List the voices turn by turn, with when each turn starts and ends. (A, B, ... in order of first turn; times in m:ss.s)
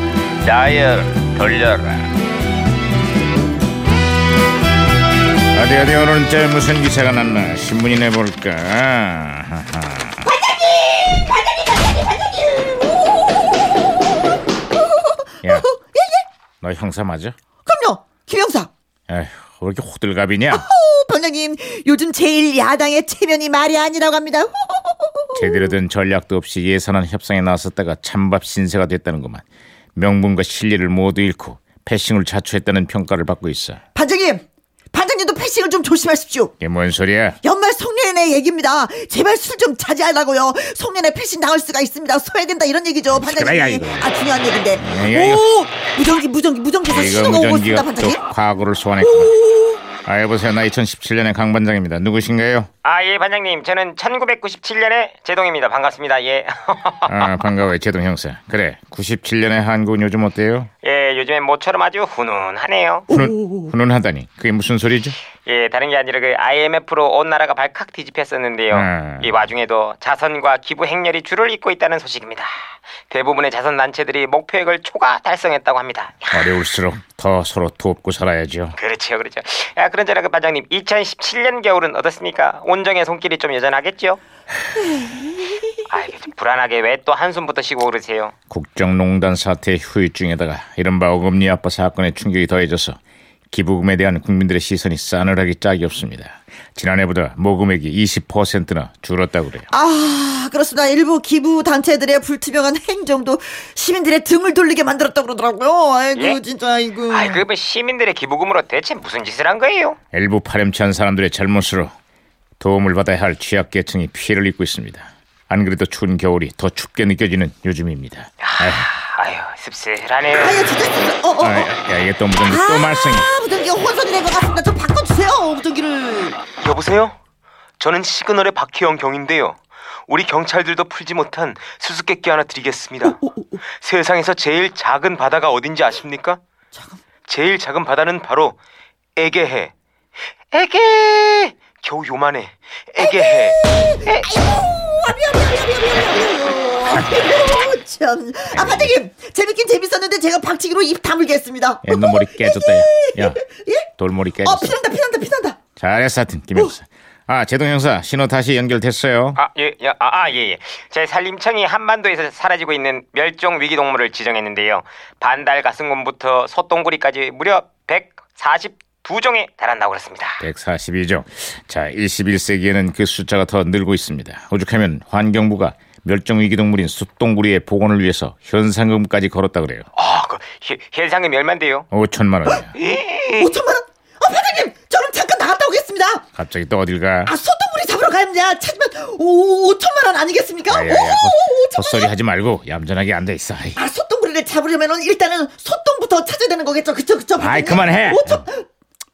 0:00.4-0:02.1 A
0:05.5-0:10.2 A
0:10.4-0:11.3 B
0:12.4-0:13.2 B
0:15.0-0:16.2 B
0:16.6-0:17.4 A
0:17.6-0:18.7 B
0:19.1-0:20.6 A
0:20.5-0:25.6 B
0:25.3-0:29.4 A
0:30.0-0:33.8 A
0:33.9-0:36.5 B
0:36.6-0:37.4 A
0:37.4-0:48.3 B
0:43.1-0:44.1 A
0:44.8-0:45.4 A
0:46.9-0:49.4 A
0:49.0-0:49.8 B
0:50.0-0:52.7 A
0:52.8-0:57.4 C
0:57.1-1:00.7 A
1:00.8-1:03.1 C
1:03.1-1:05.2 A
1:03.1-1:03.7 B
1:05.4-1:16.6 C
1:08.7-1:09.3 A
1:16.3-1:18.8 A
1:18.8-1:24.2 C
1:25.9-1:28.3 C
1:28.5-1:33.0 A
1:33.5-1:39.7 A
1:39.7-1:47.4 B
1:46.1-1:46.4 C
1:47.1-1:50.0 C
1:50.1-1:51.9 A
1:52.6-1:58.9 A
1:58.4-2:00.8 C
2:00.4-2:01.7 B
2:01.4-2:03.3 A
2:02.4-2:06.4 B
2:06.5-2:07.2 C
2:07.8-2:13.2 C
2:13.0-2:13.6 B
2:13.8-2:16.4 C
2:16.7-2:17.0 B
2:17.3-2:18.6 C
2:19.2-2:19.7 C
2:20.5-2:24.3 C
2:23.0-2:33.9 B
2:28.5-2:28.9 A
2:31.8-2:33.4 A
2:34.0-2:34.7 A
2:34.4-2:35.6 B
2:35.8-2:39.4 A
2:39.4-2:50.4 C
2:50.4-2:59.8 A
2:59.9-3:01.8 C
3:01.9-3:02.7 A
3:02.7-3:03.5 C
3:03.4-3:06.2 B
3:06.4-3:07.3 A
3:07.2-3:12.0 B
3:10.7-3:13.8 A
3:13.8-3:18.6 B
3:17.4-3:18.4 A